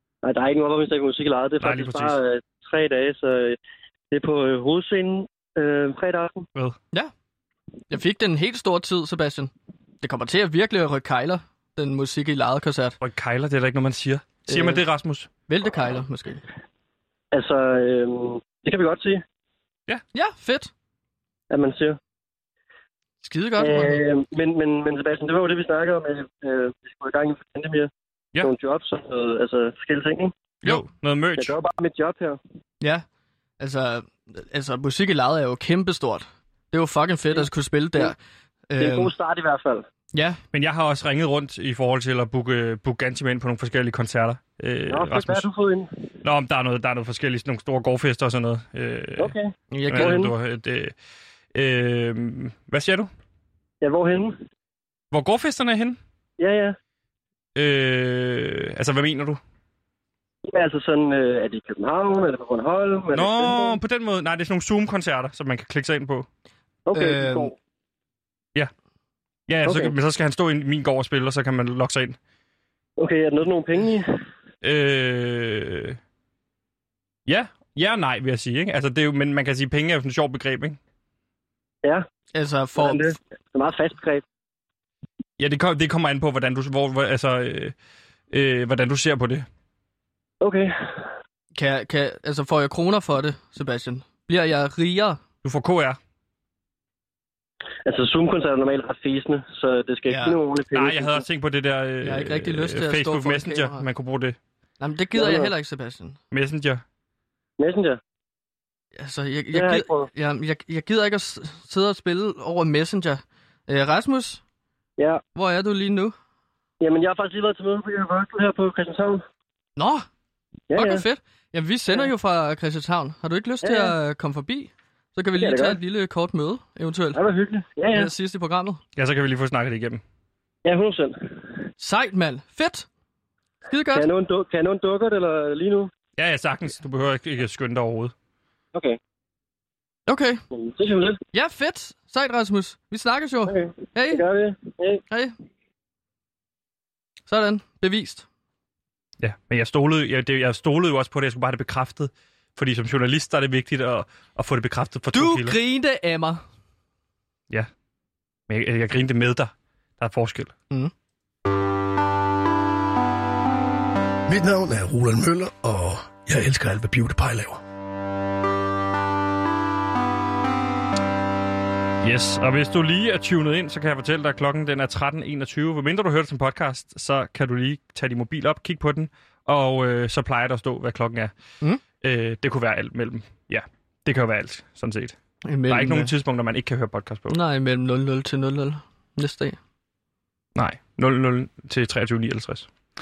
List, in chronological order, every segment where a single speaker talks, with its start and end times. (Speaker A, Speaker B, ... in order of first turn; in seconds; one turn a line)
Speaker A: 0.2-3.6
Speaker B: 1.6-2.2
Speaker A: 4.1-6.5
Speaker C: 7.9-9.5
Speaker C: 10.0-13.0
Speaker B: 13.0-15.3
Speaker C: 14.5-14.8
Speaker C: 15.5-16.4
Speaker A: 17.3-19.2
Speaker C: 20.1-20.7
Speaker A: 21.5-22.0
Speaker C: 23.2-24.0
Speaker A: 23.6-27.9
Speaker A: 28.4-30.3
Speaker B: 30.6-31.6
Speaker A: 31.4-32.4
Speaker C: 33.6-38.2
Speaker C: 38.7-39.1
Speaker A: 38.8-39.9
Speaker C: 40.1-40.4
Speaker B: 40.5-45.5
Speaker A: 44.9-45.9
Speaker B: 46.2-49.4
Speaker A: 49.2-50.3
Speaker C: 49.7-50.2
Speaker B: 49.9-50.9
Speaker B: 51.5-53.1
Speaker A: 53.8-54.4
Speaker B: 55.1-56.0
Speaker A: 56.4-56.8
Speaker B: 57.5-59.4
Speaker A: 60.5-63.8
Speaker B: 63.1-66.3
Speaker A: 66.9-67.6
Speaker C: 66.9-67.5
Speaker B: 69.5-72.2
Speaker A: 69.7-69.9
Speaker A: 73.0-74.1
Speaker B: 74.6-76.0
Speaker B: 77.3-80.8
Speaker C: 82.3-83.2
Speaker A: 82.8-84.2
Speaker B: 85.4-87.7
Speaker B: 88.3-89.5
Speaker A: 90.4-90.7
Speaker C: 91.6-95.2
Speaker B: 95.4-96.0
Speaker A: 97.9-101.2
Speaker C: 100.1-100.4
Speaker B: 100.7-104.4
Speaker C: 102.0-103.8
Speaker C: 104.8-106.2
Speaker A: 105.2-105.5
Speaker B: 106.3-106.8
Speaker A: 107.6-108.0
Speaker C: 109.0-114.4
Speaker A: 109.5-110.1
Speaker C: 115.3-116.2
Speaker A: 116.8-119.2
Speaker C: 119.8-120.1
Speaker A: 120.7-121.0
Speaker C: 120.8-127.2
Speaker A: 123.6-123.9
Speaker A: 125.4-125.8
Speaker A: 127.2-128.1
Speaker C: 127.9-128.8
Speaker B: 129.0-130.0
Speaker A: 130.7-131.3
Speaker C: 131.8-132.9
Speaker C: 133.7-134.1
Speaker A: 133.9-135.9
Speaker B: 136.2-138.1
Speaker C: 140.1-140.4
Speaker A: 140.5-141.2
Speaker C: 141.3-144.2
Speaker A: 143.5-145.0
Speaker C: 147.3-148.3
Speaker B: 149.2-155.6
Speaker C: 155.1-156.4
Speaker B: 158.5-160.5
Speaker D: 164.3-167.6
Speaker B: 172.0-181.3
Speaker B: 182.0-185.2
Speaker C: 185.4-186.1
Speaker B: 185.7-187.4
Speaker C: 187.3-189.6
Speaker B: 190.6-192.7